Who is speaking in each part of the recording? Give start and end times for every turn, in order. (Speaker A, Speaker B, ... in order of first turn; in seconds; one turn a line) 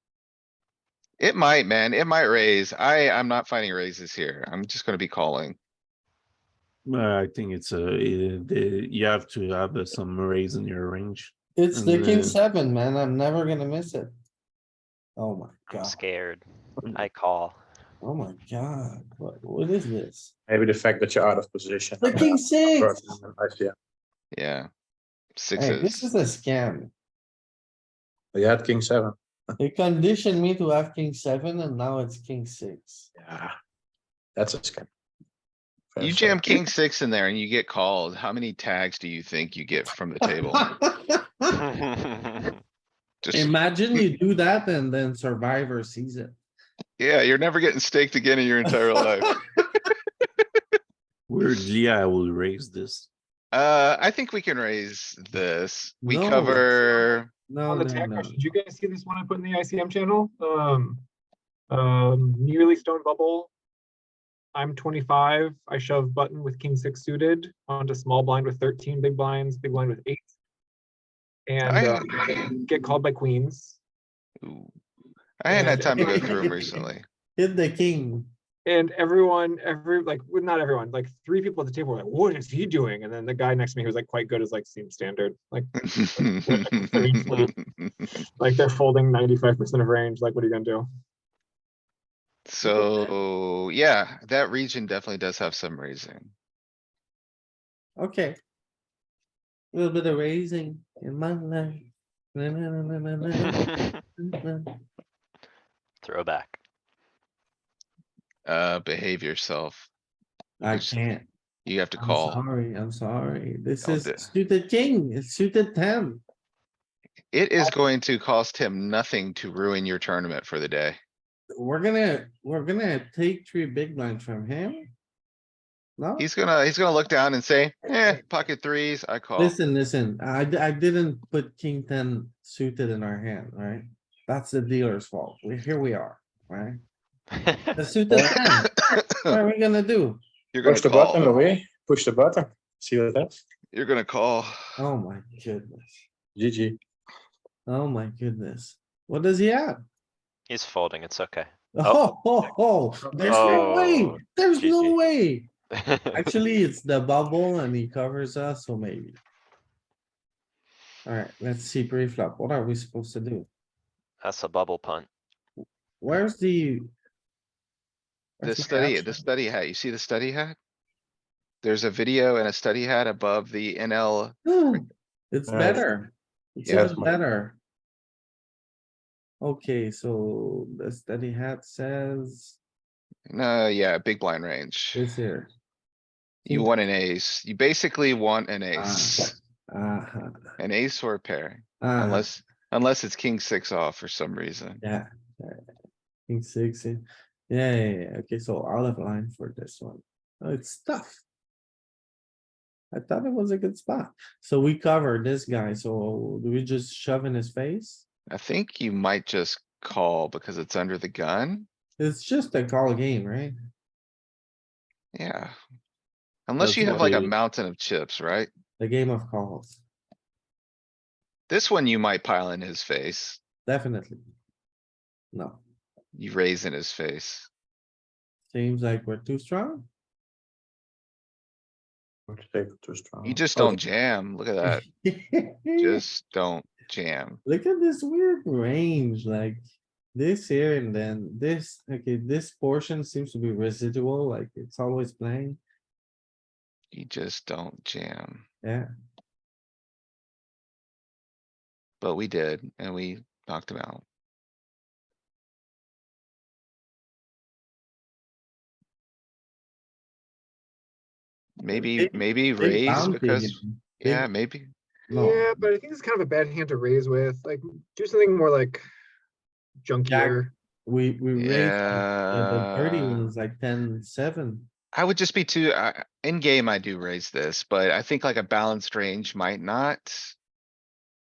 Speaker A: 1.2-5.6
Speaker B: 6.8-12.4
Speaker C: 11.6-14.1
Speaker C: 15.2-16.0
Speaker D: 15.7-17.6
Speaker C: 18.0-20.3
Speaker E: 20.5-23.7
Speaker C: 22.0-23.2
Speaker A: 24.3-24.7
Speaker A: 25.4-26.1
Speaker C: 25.6-26.9
Speaker E: 28.3-29.1
Speaker C: 29.6-33.1
Speaker E: 33.2-33.5
Speaker E: 34.4-34.9
Speaker E: 35.9-36.6
Speaker A: 36.0-40.6
Speaker C: 40.3-41.6
Speaker D: 41.7-42.5
Speaker A: 43.2-44.0
Speaker C: 43.3-46.3
Speaker A: 47.0-49.4
Speaker C: 49.0-49.3
Speaker B: 51.3-53.1
Speaker A: 53.5-57.3
Speaker C: 56.0-56.7
Speaker C: 57.5-58.4
Speaker F: 57.7-61.0
Speaker F: 61.7-63.5
Speaker F: 64.5-70.3
Speaker F: 71.5-73.8
Speaker A: 71.6-72.4
Speaker A: 74.4-74.7
Speaker A: 75.4-77.0
Speaker F: 75.5-76.4
Speaker C: 75.5-76.8
Speaker C: 77.4-78.3
Speaker F: 78.6-87.5
Speaker A: 85.8-88.1
Speaker F: 88.4-90.9
Speaker A: 92.5-96.3
Speaker C: 92.7-93.1
Speaker C: 98.0-98.3
Speaker C: 99.7-104.8
Speaker D: 106.0-106.6
Speaker A: 108.5-109.9
Speaker C: 110.6-111.3
Speaker A: 110.6-111.0
Speaker A: 111.6-112.4
Speaker C: 112.0-116.2
Speaker A: 113.8-114.3
Speaker A: 117.3-121.0
Speaker C: 121.5-124.9
Speaker C: 126.0-126.3
Speaker A: 126.2-129.6
Speaker C: 129.4-136.8
Speaker C: 137.7-140.2
Speaker E: 138.1-138.4
Speaker A: 138.9-139.3
Speaker A: 140.5-141.4
Speaker E: 140.6-143.3
Speaker A: 143.7-144.8
Speaker C: 144.8-146.0
Speaker E: 146.3-146.8
Speaker C: 147.7-149.7
Speaker D: 150.5-152.0
Speaker C: 151.8-155.5
Speaker E: 153.1-153.7
Speaker D: 153.2-155.0
Speaker D: 155.8-156.2
Speaker C: 156.1-159.2
Speaker C: 161.0-163.5
Speaker D: 164.2-165.1
Speaker C: 166.0-166.9
Speaker C: 168.4-169.2
Speaker A: 168.4-170.6
Speaker A: 171.6-174.4
Speaker C: 174.4-177.6
Speaker E: 175.5-175.8
Speaker E: 176.7-177.2
Speaker C: 179.4-182.6
Speaker A: 183.3-185.0
Speaker C: 184.9-185.5
Speaker C: 186.4-186.7
Speaker A: 186.5-189.3
Speaker C: 188.7-190.4
Speaker A: 190.6-194.8
Speaker C: 191.8-192.3
Speaker C: 194.8-195.6
Speaker C: 196.3-201.2
Speaker C: 202.9-208.0
Speaker A: 208.3-211.7
Speaker C: 212.0-213.5
Speaker A: 215.1-215.6
Speaker A: 216.5-218.5
Speaker B: 216.6-217.3
Speaker C: 218.8-219.8
Speaker A: 221.5-223.4
Speaker C: 223.7-224.2
Speaker C: 225.3-225.6
Speaker A: 226.1-227.5
Speaker C: 228.5-229.9
Speaker E: 232.3-233.8
Speaker A: 233.2-234.8
Speaker C: 234.6-236.0
Speaker A: 235.8-237.4
Speaker C: 237.4-239.6
Speaker C: 240.1-245.6
Speaker A: 246.9-248.4
Speaker A: 252.0-254.0
Speaker A: 261.6-264.7
Speaker C: 261.7-264.3
Speaker C: 265.1-265.7
Speaker F: 265.1-268.8
Speaker F: 269.8-270.5
Speaker C: 270.0-274.7
Speaker A: 271.4-273.2
Speaker A: 274.9-280.3